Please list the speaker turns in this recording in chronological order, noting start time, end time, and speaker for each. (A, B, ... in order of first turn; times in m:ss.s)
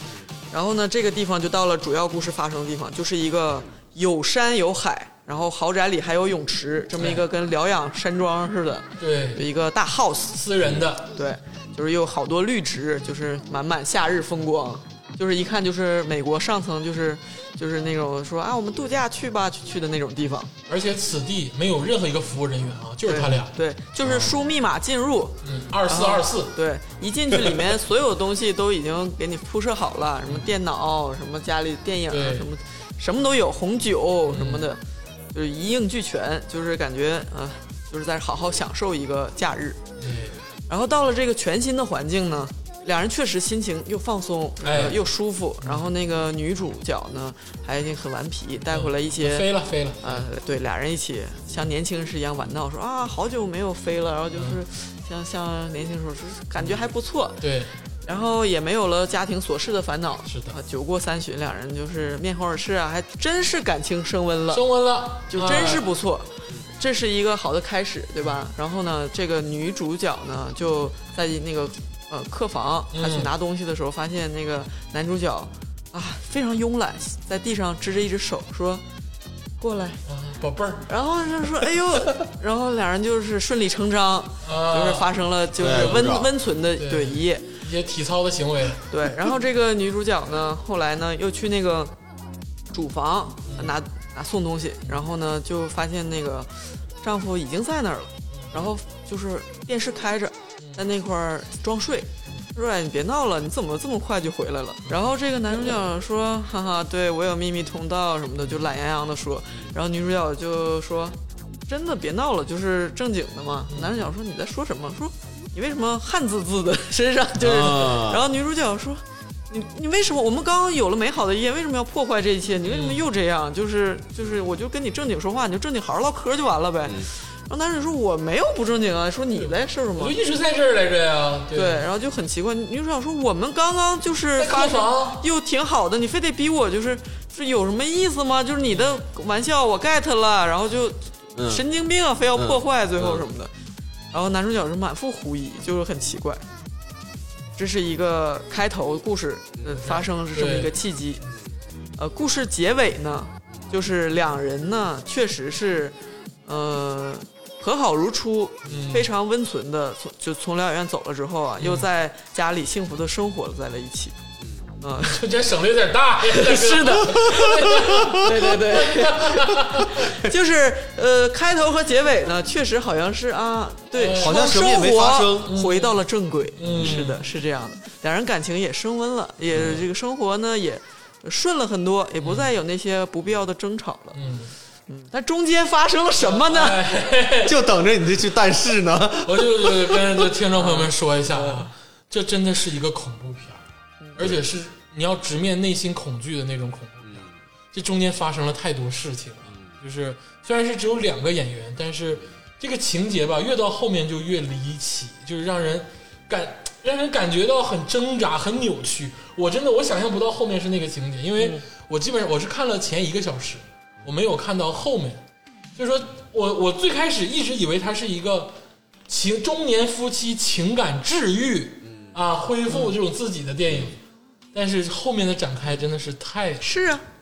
0:00.5-0:10.4 A
0:07.0-0:07.2 B
0:09.0-0:09.4 B
0:10.3-0:11.1 B
0:11.1-0:20.5 A
0:20.7-0:23.5 B
0:23.0-0:34.8 A
0:24.0-0:24.3 C
0:25.4-0:26.5 B
0:32.1-0:32.5 B
0:34.3-0:34.6 B
0:35.3-0:39.8 A
0:40.0-0:40.4 B
0:40.7-0:49.5 A
0:44.6-0:45.0 B
0:48.7-0:50.2 B
0:50.0-0:57.4 A
0:56.6-0:56.8 B
0:57.4-0:57.7 B
0:58.0-1:04.6 A
1:00.3-1:00.6 B
1:04.5-1:05.8 B
1:05.3-1:18.8 A
1:12.9-1:13.3 B
1:19.6-1:20.0 A
1:20.1-1:20.9 B
1:20.9-1:27.5 A
1:24.4-1:26.1 B
1:25.6-1:26.3 C
1:26.8-1:28.9 B
1:28.9-1:31.9 A
1:32.7-2:10.2 A
1:33.5-1:33.7 B
1:38.3-1:38.6 B
1:53.7-1:54.0 B
1:57.4-1:58.2 C
2:02.6-2:03.0 B
2:09.4-2:11.9 B
2:11.5-2:23.5 A
2:14.4-2:15.2 B
2:18.7-2:19.0 B
2:21.4-2:21.6 C
2:22.3-2:23.2 C
2:24.1-2:26.4 A
2:27.6-2:31.2 A
2:29.8-2:30.7 B
2:32.0-2:35.9 A
2:36.4-2:44.2 A
2:38.6-2:39.1 B
2:41.6-2:41.9 B
2:44.8-2:45.2 A
2:45.0-2:50.1 B
2:46.3-3:04.2 A
2:53.9-2:54.5 B
2:54.1-2:55.5 C
2:55.4-2:56.0 B
2:56.6-2:57.2 B
2:56.7-2:57.0 C
3:02.2-3:02.5 B
3:04.1-3:04.5 B
3:04.9-3:06.9 A
3:06.2-3:07.6 B
3:07.4-3:10.2 C
3:09.2-3:13.6 B
3:10.6-3:11.6 A
3:14.0-3:14.3 A
3:14.2-3:35.2 B
3:17.0-3:17.4 C
3:35.8-3:38.5 B
3:39.1-3:44.0 B
3:44.5-3:46.8 B
3:46.6-3:47.0 A